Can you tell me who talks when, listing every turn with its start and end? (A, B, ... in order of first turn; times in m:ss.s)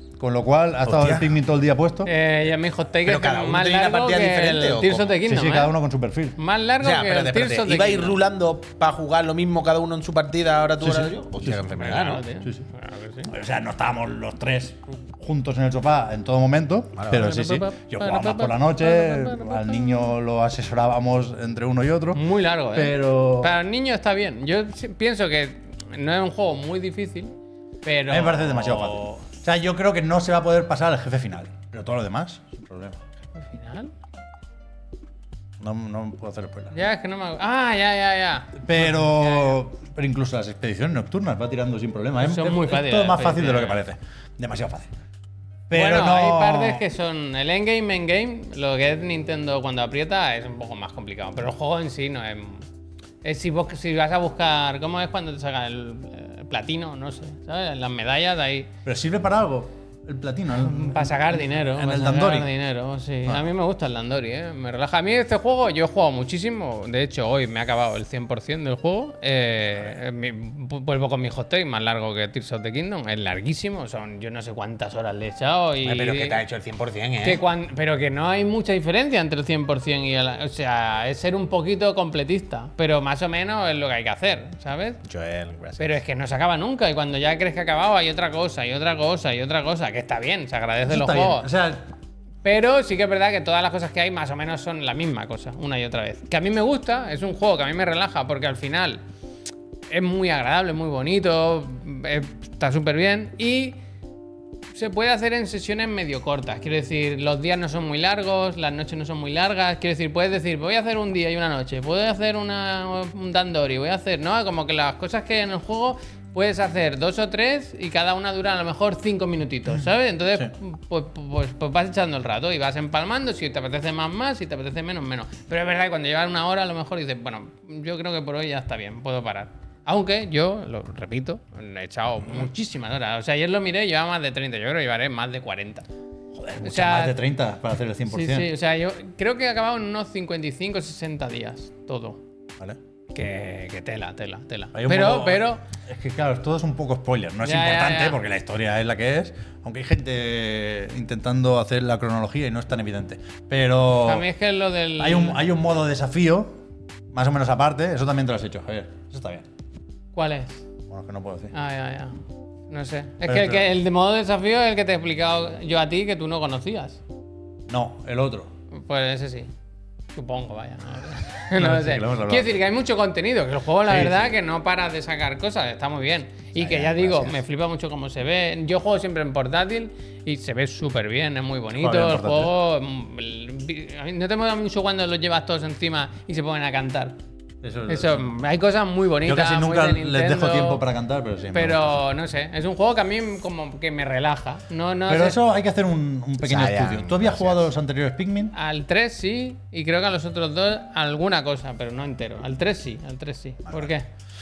0:00.2-0:02.1 A
0:00.9-0:01.3 B
0:02.0-0:05.7 C
0:03.0-0:05.2 B
0:05.2-0:06.4 A
0:06.4-0:08.2 C
0:06.8-0:12.2 B
0:10.8-0:11.6 A
0:11.8-0:13.3 C
0:13.3-0:22.2 A
0:16.9-0:17.3 B
0:17.1-0:20.1 C
0:22.1-0:29.0 C
0:22.7-0:23.5 A
0:28.1-0:33.0 A
0:33.4-0:33.9 C
0:35.6-0:36.7 A
0:36.7-0:39.6 C
0:38.6-0:44.9 A
0:42.2-0:43.8 C
0:45.7-0:46.8 A
0:45.7-0:52.6 C
0:53.2-0:58.7 C
0:58.8-1:02.5 A
1:00.6-1:16.4 C
1:15.8-1:17.4 B
1:17.2-1:25.0 C
1:25.0-1:25.9 B
1:25.8-1:31.5 C
1:30.8-1:31.8 A
1:32.4-1:39.0 C
1:39.9-1:43.8 C
1:44.7-2:15.9 C
2:16.3-2:18.5 A
2:16.6-2:17.2 C
2:18.1-2:22.2 C
2:23.1-2:25.6 C
2:24.7-2:34.2 A
2:27.4-2:28.2 C
2:34.0-2:35.5 C
2:35.0-2:36.5 A
2:37.1-2:39.5 A
2:40.1-2:40.6 C
2:40.9-2:41.5 A
2:41.5-2:42.1 C
2:42.7-2:47.0 C
2:43.2-2:43.6 A
2:47.7-2:48.5 A
2:48.7-2:49.5 C
2:50.1-3:07.2 C
2:51.6-2:52.6 A
2:53.9-2:54.3 A
2:56.6-2:57.4 A
3:01.7-3:02.5 A
3:07.6-3:08.2 A
3:07.9-3:10.8 C
3:09.2-3:11.8 A
3:11.5-3:15.4 C
3:15.1-3:18.5 A
3:16.4-3:17.6 B
3:18.5-3:24.0 C